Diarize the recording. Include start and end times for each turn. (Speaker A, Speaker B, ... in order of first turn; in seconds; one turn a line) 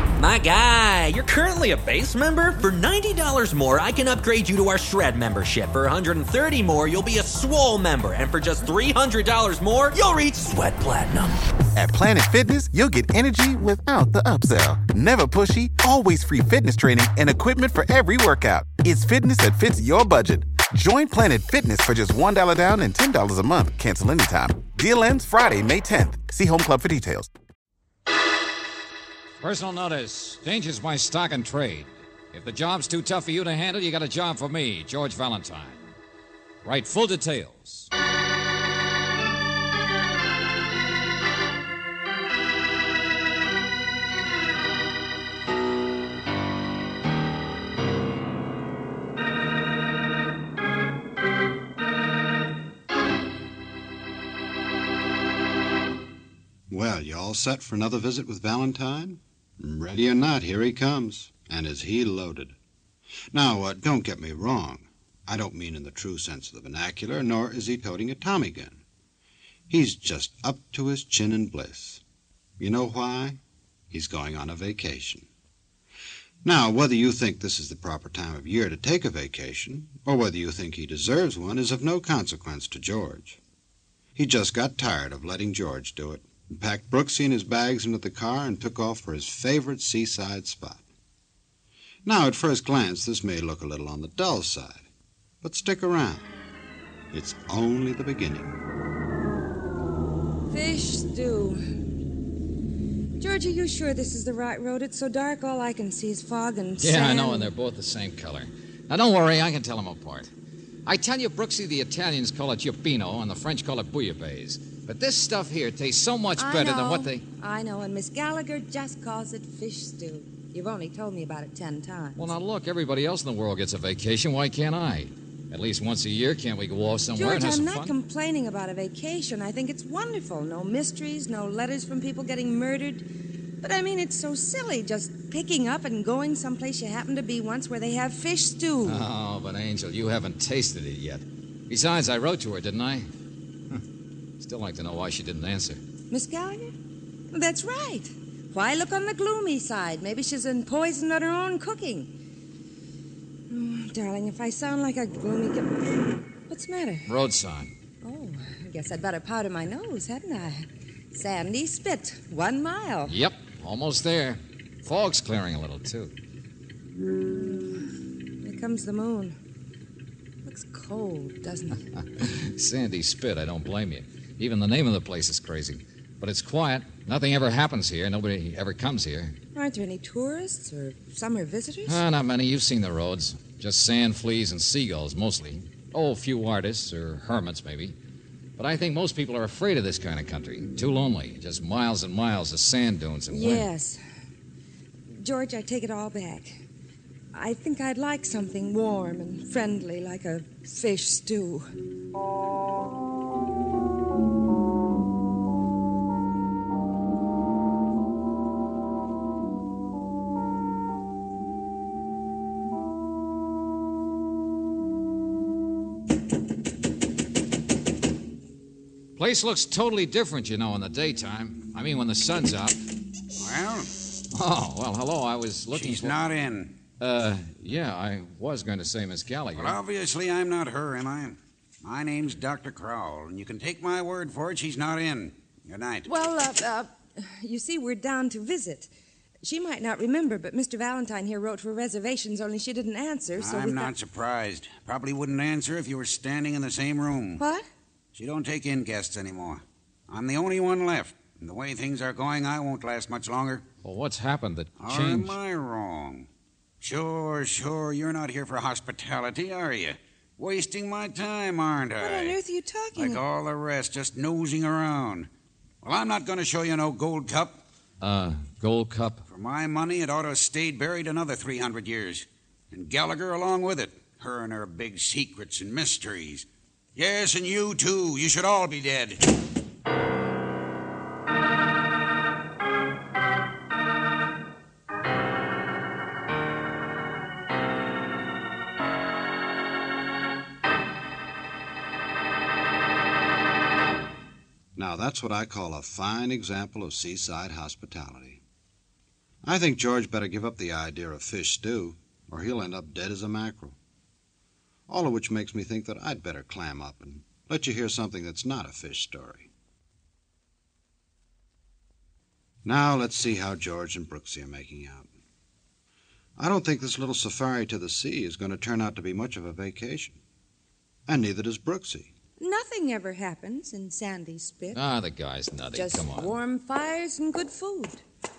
Speaker A: 0.2-11.3
Speaker B: 11.8-27.3
Speaker C: 29.4-36.0
Speaker C: 36.6-37.9
Speaker D: 56.7-62.6
Speaker D: 63.3-68.8
Speaker D: 69.7-72.0
Speaker D: 72.6-73.4
Speaker D: 73.9-75.3
Speaker D: 76.4-83.4
Speaker D: 84.2-90.8
Speaker D: 92.0-94.9
Speaker D: 95.4-96.3
Speaker D: 97.1-98.6
Speaker E: 100.5-101.6
Speaker E: 103.2-107.5
Speaker C: 106.8-110.3
Speaker C: 110.9-117.3
Speaker E: 116.4-122.2
Speaker C: 122.2-128.0
Speaker E: 127.2-133.1
Speaker E: 133.6-139.0
Speaker C: 138.8-143.1
Speaker C: 144.4-145.8
Speaker E: 146.1-146.7
Speaker E: 147.3-152.1
Speaker E: 153.5-157.1
Speaker C: 157.1-157.7
Speaker E: 158.0-163.2
Speaker C: 163.1-166.1
Speaker E: 167.5-167.8
Speaker E: 168.4-169.4
Speaker E: 170.4-171.8
Speaker C: 172.2-179.4
Speaker E: 179.6-182.0
Speaker C: 181.9-188.0
Speaker C: 188.6-193.7
Speaker E: 193.3-194.0
Speaker E: 195.1-196.6
Speaker E: 197.3-201.7
Speaker C: 219.2-222.8
Speaker F: 223.4-223.9
Speaker C: 224.3-226.2
Speaker F: 225.7-226.8
Speaker C: 227.0-229.8
Speaker F: 229.6-236.1
Speaker E: 236.1-238.9
Speaker E: 239.4-243.9
Speaker F: 243.4-247.4
Speaker E: 247.4-247.7
Speaker F: 248.2-253.7
Speaker C: 253.8-255.4
Speaker F: 254.8-256.3
Speaker F: 256.8-262.4
Speaker E: 262.0-263.2
Speaker F: 262.9-265.3
Speaker F: 265.8-267.6
Speaker C: 268.0-269.2
Speaker F: 269.3-279.2
Speaker D: 294.8-298.4
Speaker D: 299.4-303.8
Speaker D: 304.9-309.5
Speaker D: 312.6-315.1
Speaker D: 316.4-320.2
Speaker D: 321.1-322.1
Speaker E: 322.4-324.8
Speaker C: 324.7-326.4
Speaker E: 325.7-328.0